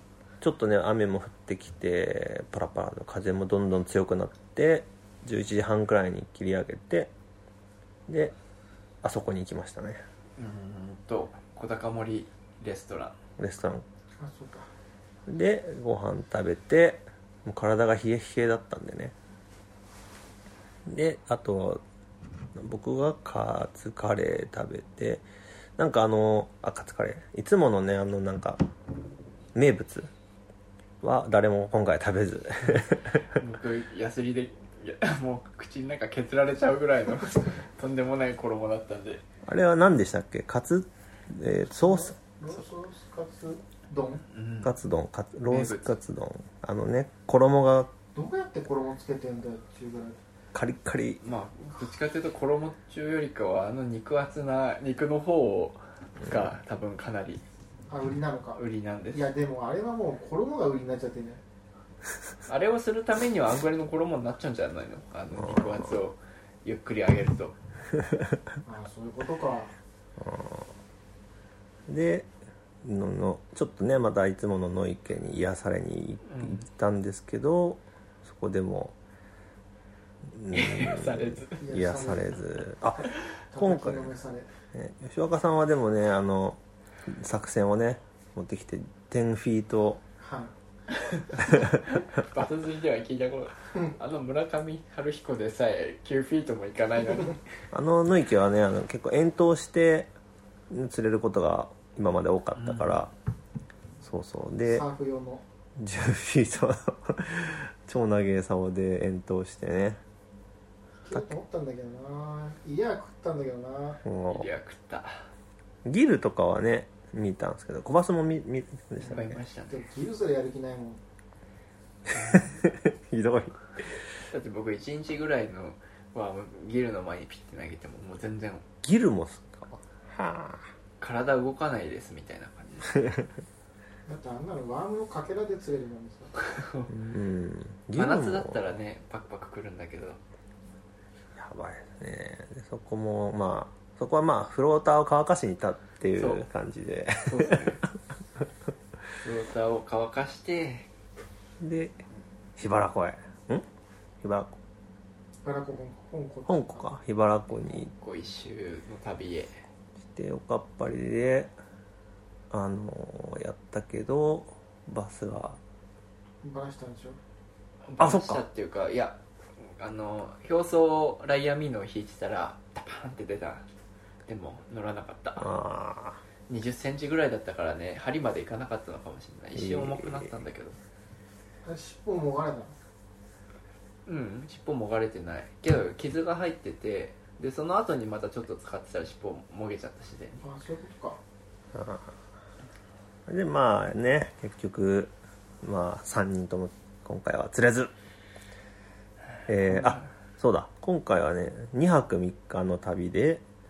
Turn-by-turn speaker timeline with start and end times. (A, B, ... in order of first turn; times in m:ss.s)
0:00.4-0:07.1 A
0:08.1-0:08.4 A
0:09.0-0:10.0 A
0:10.4-0:13.2 B
0:13.4-0:13.8 A
0:14.2-0:14.7 C
0:15.3-0:19.2 A
0:20.9-0:21.8 A
0:22.6-0:25.2 A
0:25.8-0:28.6 A
0:29.6-0:30.1 A
0:31.0-0:33.2 A
0:33.3-0:39.2 B
0:39.4-0:42.2 A
0:41.8-0:44.2 C
0:44.3-0:44.7 B
0:44.6-0:47.9 A
0:45.5-0:46.0 B
0:48.2-0:50.2 C
0:50.5-0:51.2 A
0:51.2-0:57.4 B
0:57.9-0:58.6 C
0:58.6-0:59.2 B
0:59.1-1:01.4 C
1:02.5-1:07.6 B
1:05.4-1:05.8 A
1:08.6-1:09.8 C
1:10.2-1:10.7 A
1:11.9-1:12.3 A
1:12.8-1:19.0 A
1:16.2-1:16.6 B
1:20.3-1:24.2 A
1:20.5-1:21.6 B
1:21.6-1:22.4 C
1:23.5-1:24.5 C
1:24.7-1:30.0 A
1:30.2-1:30.5 C
1:31.0-1:37.4 B
1:37.7-1:40.1 A
1:40.7-1:43.1 A
1:42.6-1:42.9 B
1:44.0-1:44.9 A
1:44.7-1:45.4 C
1:45.8-1:50.0 A
1:51.0-1:54.0 C
1:54.0-1:54.5 A
1:54.3-1:55.3 B
1:55.8-1:59.4 A
1:59.0-1:59.8 B
1:59.7-2:01.0 C
2:02.1-2:03.7 A
2:02.1-2:02.5 B
2:04.3-2:08.7 B
2:08.8-2:10.7 A
2:11.0-2:13.1 B
2:14.1-2:16.3 C
2:16.5-2:16.9 B
2:16.9-2:18.6 A
2:18.0-2:20.2 B
2:21.4-2:27.8 A
2:26.2-2:26.4 B
2:27.2-2:27.8 B
2:29.2-2:30.9 B
2:31.6-2:32.0 A
2:32.6-2:33.7 A
2:34.2-2:34.6 A
2:35.4-2:36.9 C
2:36.5-2:37.9 A
2:37.7-2:39.6 B
2:40.0-2:41.5 A
2:42.5-2:45.6 A
2:46.4-2:47.2 C
2:47.8-2:53.7 B
2:48.0-2:48.4 A
2:54.3-2:55.6 B
2:55.4-2:56.2 A
2:56.5-3:00.8 B
2:59.6-3:00.3 A
3:01.6-3:02.7 C
3:04.1-3:10.4 B
3:10.4-3:11.2 C
3:11.7-3:12.1 A
3:13.3-3:17.9 A
3:19.5-3:23.4 A
3:19.7-3:20.1 B